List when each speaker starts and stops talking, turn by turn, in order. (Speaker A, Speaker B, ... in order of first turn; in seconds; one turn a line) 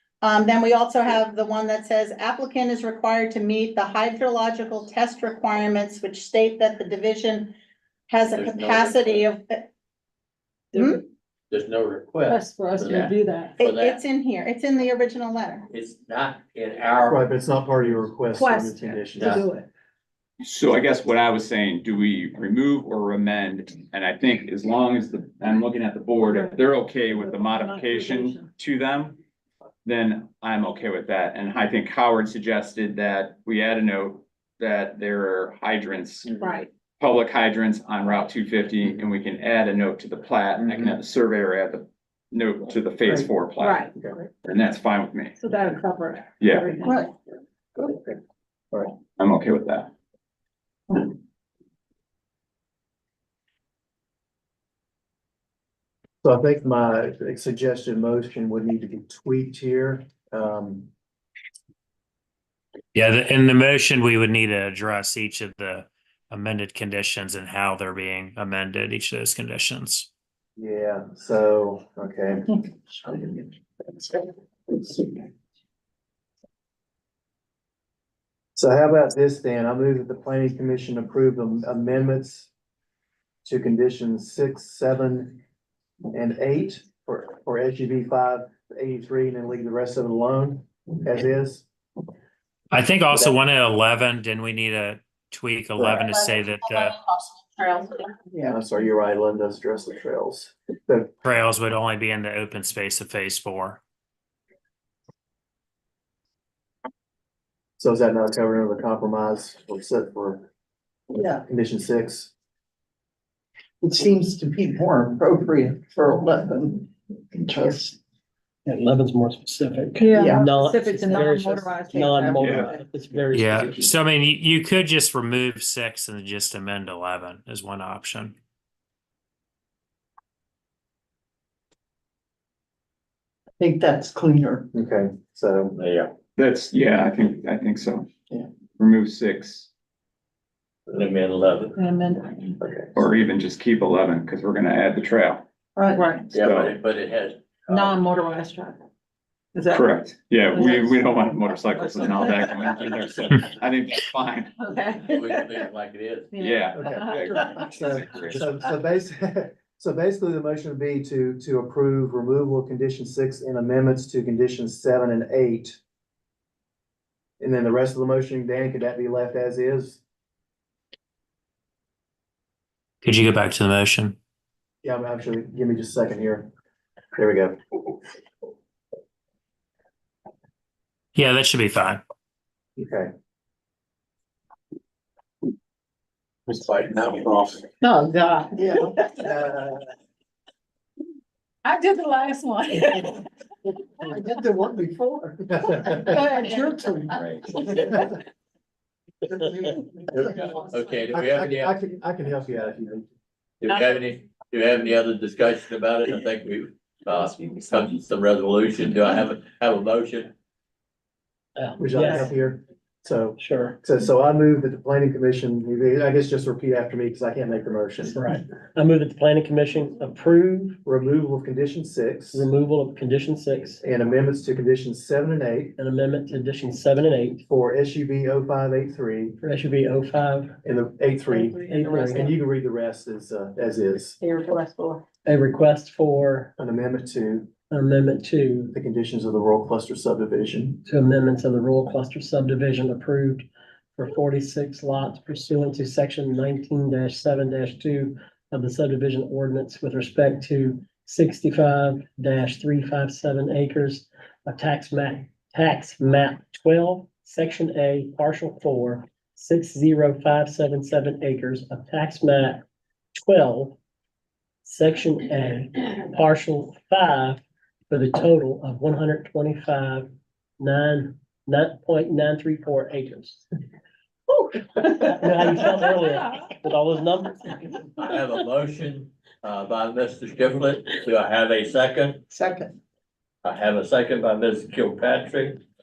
Speaker A: 0.2-7.5
Speaker A: 8.1-9.7
Speaker B: 8.3-9.3
Speaker C: 10.7-11.0
Speaker A: 10.7-11.0
Speaker B: 11.5-14.0
Speaker C: 12.3-13.6
Speaker A: 13.6-15.7
Speaker B: 15.7-17.2
Speaker D: 17.1-19.4
Speaker C: 18.3-19.7
Speaker B: 19.2-19.4
Speaker E: 20.4-29.2
Speaker C: 26.2-26.6
Speaker C: 27.2-28.5
Speaker E: 29.8-36.3
Speaker D: 36.3-36.6
Speaker C: 36.4-36.7
Speaker E: 37.0-43.9
Speaker D: 40.6-40.9
Speaker C: 43.6-44.0
Speaker E: 44.4-45.4
Speaker C: 45.4-47.1
Speaker E: 46.4-46.7
Speaker D: 47.8-48.2
Speaker E: 49.2-49.9
Speaker D: 56.2-60.9
Speaker F: 62.9-70.1
Speaker D: 70.6-73.1
Speaker D: 78.5-82.5
Speaker D: 83.4-85.4
Speaker D: 86.1-91.7
Speaker F: 92.7-97.0
Speaker D: 98.4-101.1
Speaker F: 101.2-103.8
Speaker D: 107.8-110.5
Speaker G: 111.1-111.4
Speaker D: 111.3-112.3
Speaker G: 113.8-118.0
Speaker H: 118.7-123.7
Speaker C: 120.0-122.5
Speaker G: 120.0-120.5
Speaker G: 121.9-122.8
Speaker E: 122.4-122.7
Speaker F: 123.3-128.3
Speaker G: 123.6-123.9
Speaker G: 133.6-134.7
Speaker D: 134.7-135.8
Speaker B: 135.7-136.1
Speaker E: 136.3-138.1
Speaker E: 138.8-139.7
Speaker B: 140.9-141.8
Speaker C: 141.8-142.3
Speaker D: 142.6-142.9
Speaker E: 142.9-145.4
Speaker G: 145.8-146.1
Speaker C: 145.9-146.3
Speaker E: 146.3-146.8
Speaker B: 146.3-148.0
Speaker C: 147.7-148.8
Speaker C: 149.5-149.9
Speaker E: 149.7-154.5
Speaker C: 150.5-151.1
Speaker C: 151.7-152.5
Speaker C: 154.6-155.6
Speaker B: 155.0-156.4
Speaker C: 156.3-157.7
Speaker E: 156.3-158.5
Speaker D: 156.7-165.8
Speaker D: 167.4-170.0
Speaker F: 173.0-174.2
Speaker D: 174.8-176.5
Speaker D: 177.1-177.6
Speaker F: 181.2-182.0
Speaker D: 182.8-183.1
Speaker D: 186.5-187.4
Speaker C: 187.9-188.5
Speaker D: 188.6-189.8
Speaker C: 192.4-193.0
Speaker D: 194.0-198.1
Speaker C: 196.1-196.4
Speaker D: 199.3-203.1
Speaker B: 200.3-201.7
Speaker B: 203.6-210.3
Speaker H: 211.6-212.3
Speaker D: 211.8-218.2
Speaker H: 213.4-213.8
Speaker H: 218.1-220.8
Speaker D: 220.8-222.5
Speaker H: 222.3-223.8
Speaker D: 223.8-225.7
Speaker H: 225.8-227.4
Speaker D: 227.4-229.4
Speaker H: 229.4-230.6
Speaker D: 230.6-234.2
Speaker C: 231.3-232.3
Speaker H: 231.6-232.3
Speaker C: 234.2-235.0
Speaker H: 235.2-236.5
Speaker D: 236.6-237.5
Speaker H: 237.7-238.7
Speaker D: 238.7-240.8
Speaker H: 240.8-262.6
Speaker H: 263.2-263.8
Speaker H: 264.6-270.1
Speaker H: 270.6-273.4
Speaker H: 274.8-277.6
Speaker B: 278.0-282.2
Speaker G: 282.3-282.7
Speaker B: 283.4-285.6